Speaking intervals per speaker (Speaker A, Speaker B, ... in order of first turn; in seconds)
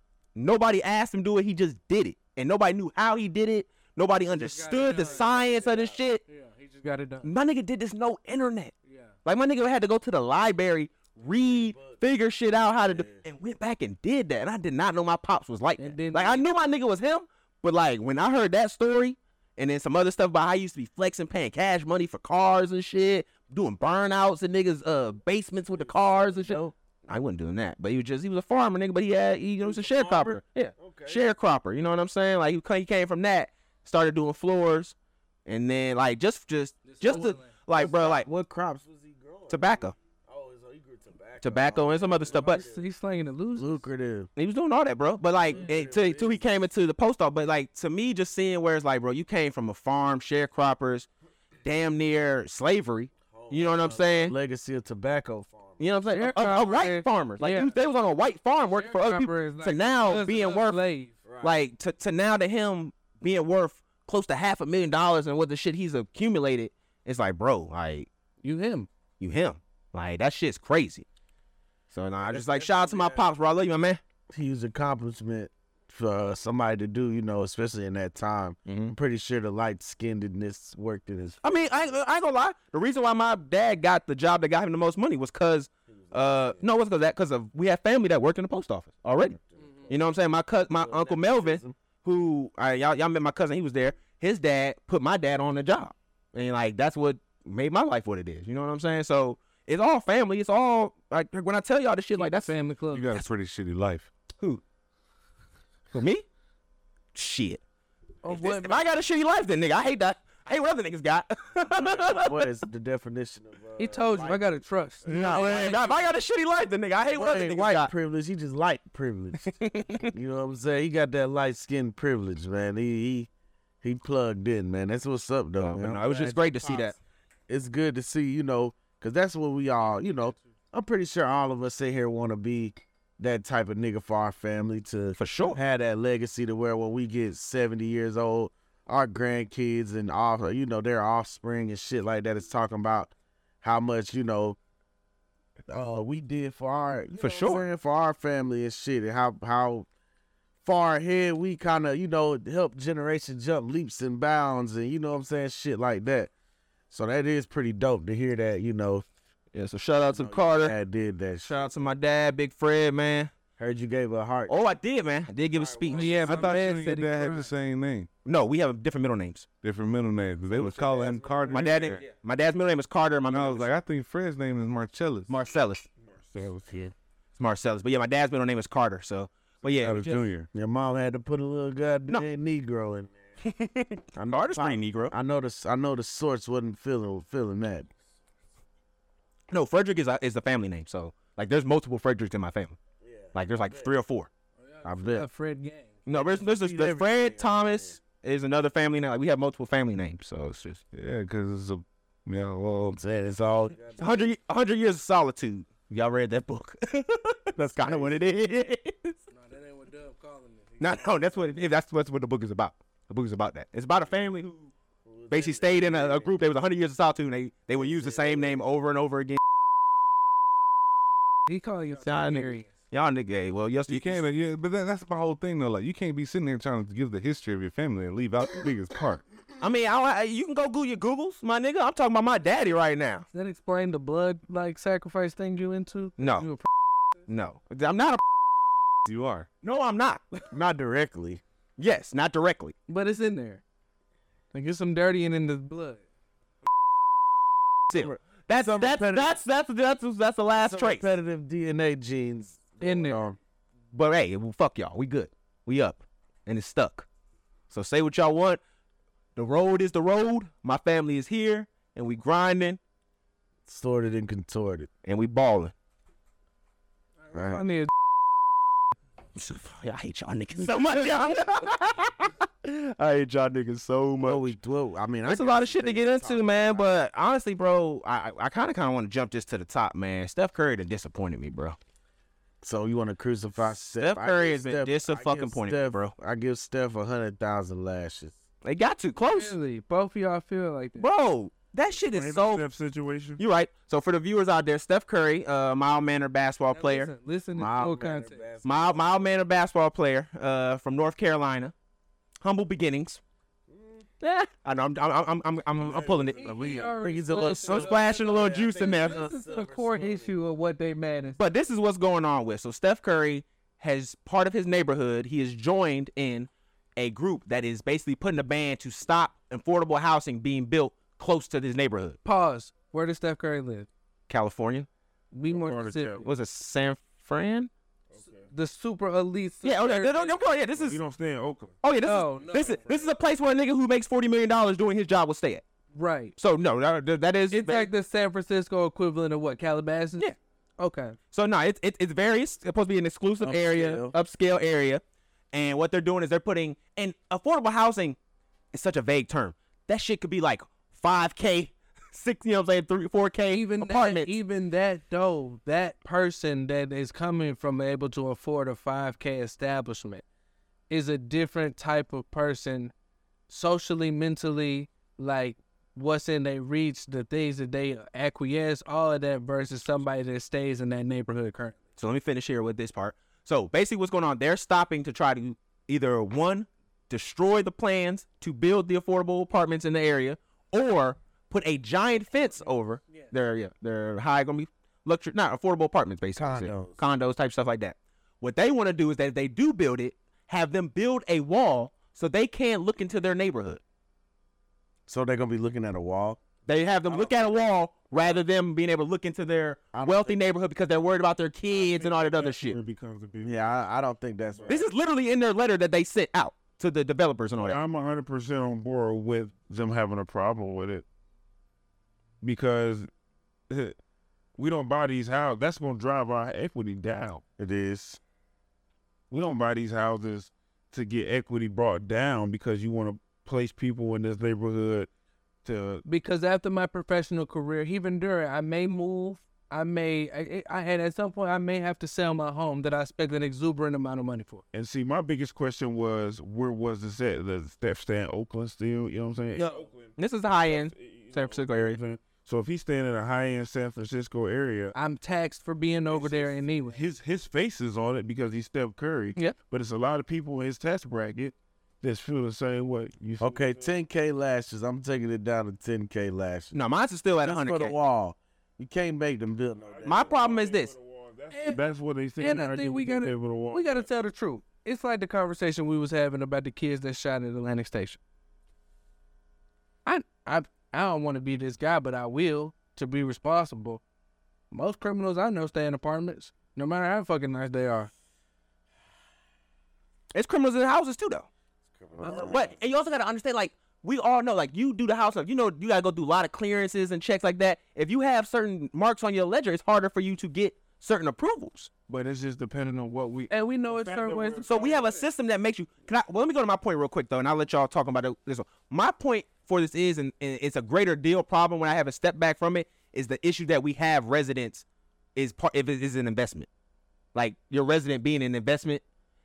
Speaker A: 0.3-6.2, 7.2-8.7, 9.2-34.9, 35.5-38.3, 39.5-39.9, 41.4-42.6, 44.4-51.1, 51.6-54.3, 55.8-60.8, 61.4-68.1, 69.2-71.0, 71.9-74.0, 78.7-78.9, 81.4-102.5, 105.9-106.2, 107.1-107.6, 108.3-112.5, 115.0-117.9, 119.5-120.1, 125.6-127.0, 135.2-135.6, 147.2-147.6, 159.5-160.7, 161.4-163.3, 164.5-166.3, 168.2-169.5, 171.4-173.7, 175.3-175.9, 177.4-180.2, 183.4-185.1, 189.5-192.8, 193.3-194.3, 196.1-200.8, 204.0-209.2, 210.8-214.7, 215.3-219.4, 222.0-224.2, 229.6-233.2, 236.2-236.5, 237.3-238.2, 239.6-240.5, 241.8-242.7, 247.9-251.1, 253.9-257.1, 257.7-258.6, 259.4-262.8, 265.0-265.7, 269.4-272.3, 275.2-281.8, 284.0-286.1, 288.6-289.5, 291.0-292.6, 293.4-297.1, 298.6-301.7, 302.4-303.2, 304.2-309.3, 311.4-322.2, 324.3-324.9, 326.2-327.7, 329.6-331.0, 331.8-335.6, 336.4-337.9, 341.3-345.0, 345.5-348.2, 348.7-354.3, 372.0-393.8, 396.6-402.8, 404.7-407.8, 440.2-442.0, 456.7-457.9, 460.0-460.9, 480.3-481.5, 482.2-491.9, 494.6-504.8, 505.4-506.7, 507.3-509.0
Speaker B: 4.3-5.3, 6.2-7.3, 8.8-9.1, 15.8-16.4, 36.8-37.5, 42.3-43.8, 56.1-57.7, 58.6-61.1, 68.4-68.9, 89.6-89.9, 102.2-103.2, 108.2-108.8, 113.8-115.8, 165.9-167.5, 194.6-195.9, 209.3-211.2, 221.5-222.7, 233.3-236.7, 242.9-243.6, 244.5-246.0, 252.8-253.2, 267.3-267.9, 289.2-291.1, 296.7-298.4, 306.3-311.4, 322.2-323.9, 325.3-326.2, 328.5-330.4, 332.0-332.8, 335.9-336.3, 337.5-341.2, 353.5-360.2, 360.9-362.9, 363.5-371.8, 383.1-383.3, 426.0-434.6, 439.5-439.9, 444.9-447.0, 461.5-461.8, 462.4-468.2, 470.0-474.0, 474.7-478.1, 493.5-494.7
Speaker C: 4.9-6.0, 11.3-12.0, 12.8-13.2, 25.8-26.7, 29.6-31.2, 37.7-42.8, 43.6-44.3, 45.5-46.5, 53.3-55.9, 61.2-61.5, 72.2-73.2, 74.3-81.9, 85.9-86.6, 89.4-90.0, 90.7-91.7, 112.0-114.4, 115.0-115.9, 117.1-119.5, 120.1-123.3, 123.8-127.0, 127.5-144.6, 145.7-149.9, 150.6-156.3, 156.9-159.1, 160.0-161.7, 163.6-164.5, 165.5-166.5, 170.6-171.9, 180.5-183.2, 184.2-187.9, 193.0-193.9, 194.8-195.2, 196.2-197.9, 202.9-204.3, 207.6-208.2, 215.1-216.3, 217.8-218.6, 240.5-241.4, 247.9-249.3, 250.6-253.4, 263.6-264.9, 267.3-267.6, 274.2-276.9, 282.6-288.3, 297.6-299.3, 303.7-304.1, 305.9-310.3, 343.4-344.1, 386.4-387.0, 395.1-396.4, 397.1-397.6, 399.9-400.4, 403.4-404.9, 417.6-418.2, 453.4-456.7, 457.4-460.5, 482.0-482.8
Speaker D: 102.9-104.1, 166.2-168.1, 169.6-172.0, 173.3-175.3, 176.4-176.8, 179.7-180.5, 200.9-203.0, 223.9-229.2, 239.1-239.5, 272.6-274.4
Speaker E: 176.2-176.6, 292.1-293.4, 325.5-326.3, 328.1-328.5, 330.8-331.8, 332.6-333.1, 401.7-403.5, 404.5-404.8, 407.6-411.0, 412.4-413.1, 413.7-414.0, 414.6-417.4, 419.3-425.1, 425.6-426.0, 434.7-444.9, 446.1-453.9, 459.8-464.1, 492.1-495.2